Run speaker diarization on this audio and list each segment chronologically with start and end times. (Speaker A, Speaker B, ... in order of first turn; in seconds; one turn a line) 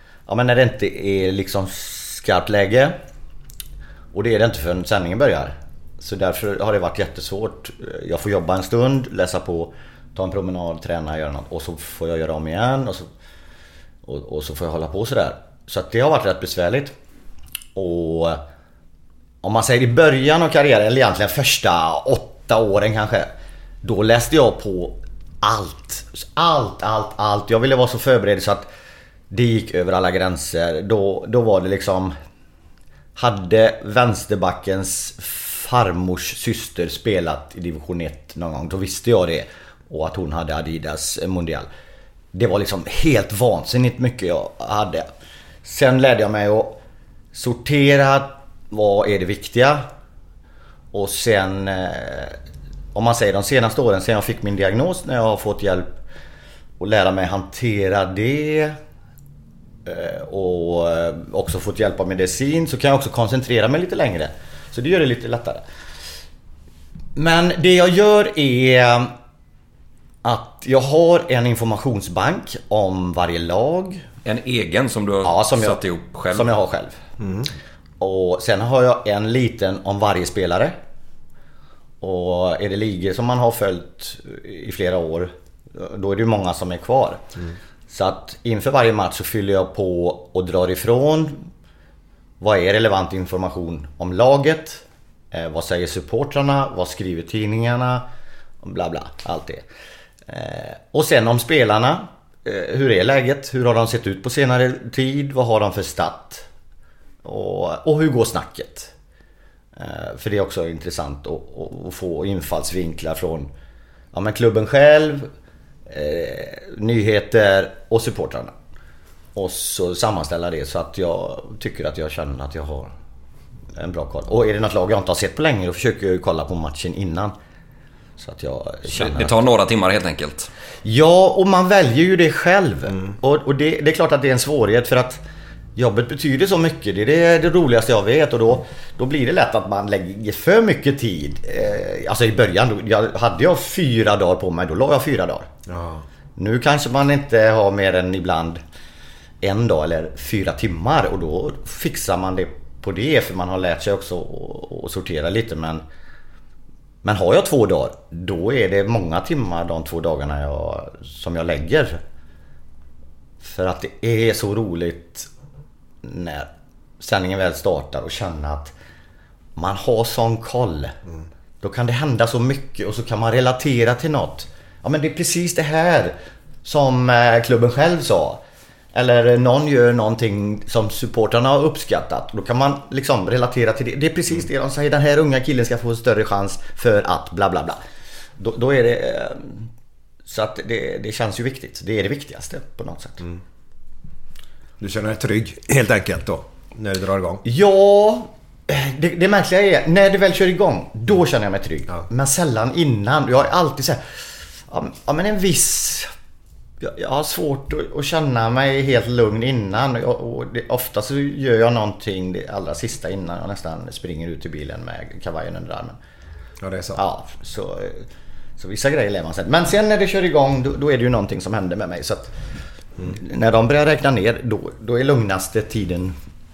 Speaker A: 0.3-3.0
Speaker A: 4.1-13.1
Speaker A: 14.1-16.9
Speaker A: 17.7-18.4
Speaker A: 19.4-23.3
Speaker A: 23.8-28.7
Speaker A: 29.3-32.1
Speaker A: 33.1-41.7
Speaker A: 42.3-45.1
Speaker A: 45.6-46.8
Speaker A: 47.3-49.9
Speaker A: 50.9-52.4
Speaker A: 52.9-55.9
Speaker A: 56.8-58.8
Speaker A: 59.8-65.6
Speaker A: 67.2-69.1
Speaker A: 70.2-74.0
Speaker B: 74.2-76.5
Speaker A: 75.2-77.0
Speaker C: 77.2-77.5
Speaker A: 78.0-80.8
Speaker A: 82.0-87.3
Speaker A: 87.9-91.5
Speaker A: 92.4-98.0
Speaker A: 98.6-99.6
Speaker A: 100.3-106.4
Speaker A: 107.2-108.9
Speaker A: 109.8-113.5
Speaker A: 114.1-115.3
Speaker A: 115.9-118.5
Speaker A: 119.3-122.9
Speaker A: 123.8-127.3
Speaker A: 128.2-129.4
Speaker B: 128.9-130.5
Speaker A: 130.8-135.2
Speaker A: 135.8-145.5
Speaker C: 145.7-146.0
Speaker A: 146.4-148.6
Speaker A: 149.4-155.8
Speaker A: 157.0-162.0
Speaker A: 163.4-165.3
Speaker A: 166.0-166.5
Speaker A: 167.0-168.7
Speaker A: 169.6-170.9
Speaker A: 171.6-178.4
Speaker A: 178.9-187.8
Speaker A: 188.4-189.7
Speaker A: 190.3-193.2
Speaker C: 194.8-197.4
Speaker A: 197.4-206.1
Speaker A: 206.8-216.0
Speaker C: 216.6-217.0
Speaker A: 216.9-218.1
Speaker A: 218.6-222.3
Speaker A: 223.0-226.2